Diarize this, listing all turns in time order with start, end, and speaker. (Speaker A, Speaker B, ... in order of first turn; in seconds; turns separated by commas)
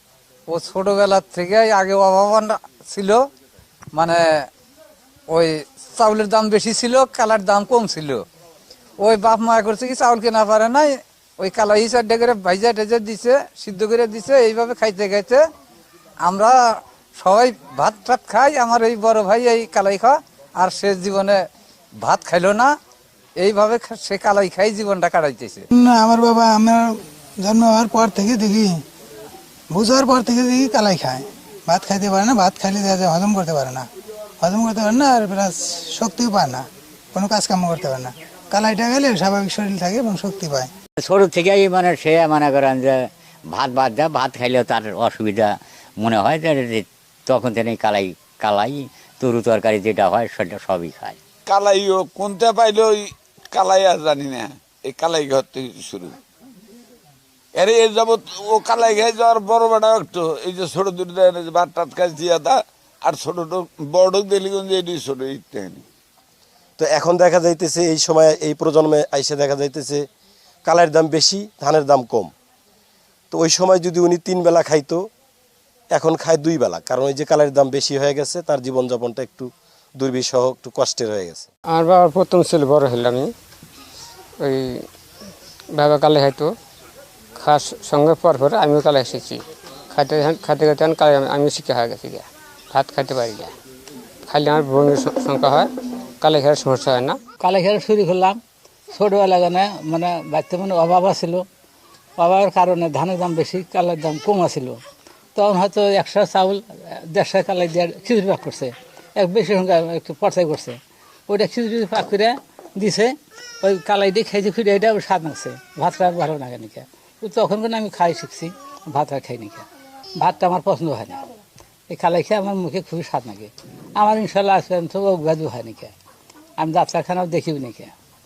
Speaker A: 0.5-3.2, Speaker A: 3.9-4.2, Speaker A: 5.3-8.2, Speaker A: 9.0-15.4, Speaker A: 16.2-16.5, Speaker A: 17.2-21.4, Speaker A: 22.0-22.7, Speaker A: 23.4-25.6, Speaker B: 25.7-28.7, Speaker B: 29.7-33.9, Speaker B: 34.4-40.7, Speaker C: 41.0-43.0, Speaker C: 43.5-51.2, Speaker D: 51.5-56.2, Speaker D: 57.5-65.8, Speaker E: 66.8-70.0, Speaker E: 70.7-72.3, Speaker E: 73.3-75.0, Speaker E: 75.9-81.5, Speaker F: 81.7-83.3, Speaker F: 84.4-84.8, Speaker F: 85.7-86.5, Speaker F: 87.4-93.5, Speaker F: 94.3-95.7, Speaker F: 96.2-97.2, Speaker G: 97.4-98.4, Speaker G: 98.9-101.4, Speaker G: 102.2-104.8, Speaker G: 105.3-110.8, Speaker G: 111.3-119.6, Speaker G: 120.2-121.2, Speaker G: 121.9-125.9, Speaker G: 126.6-127.9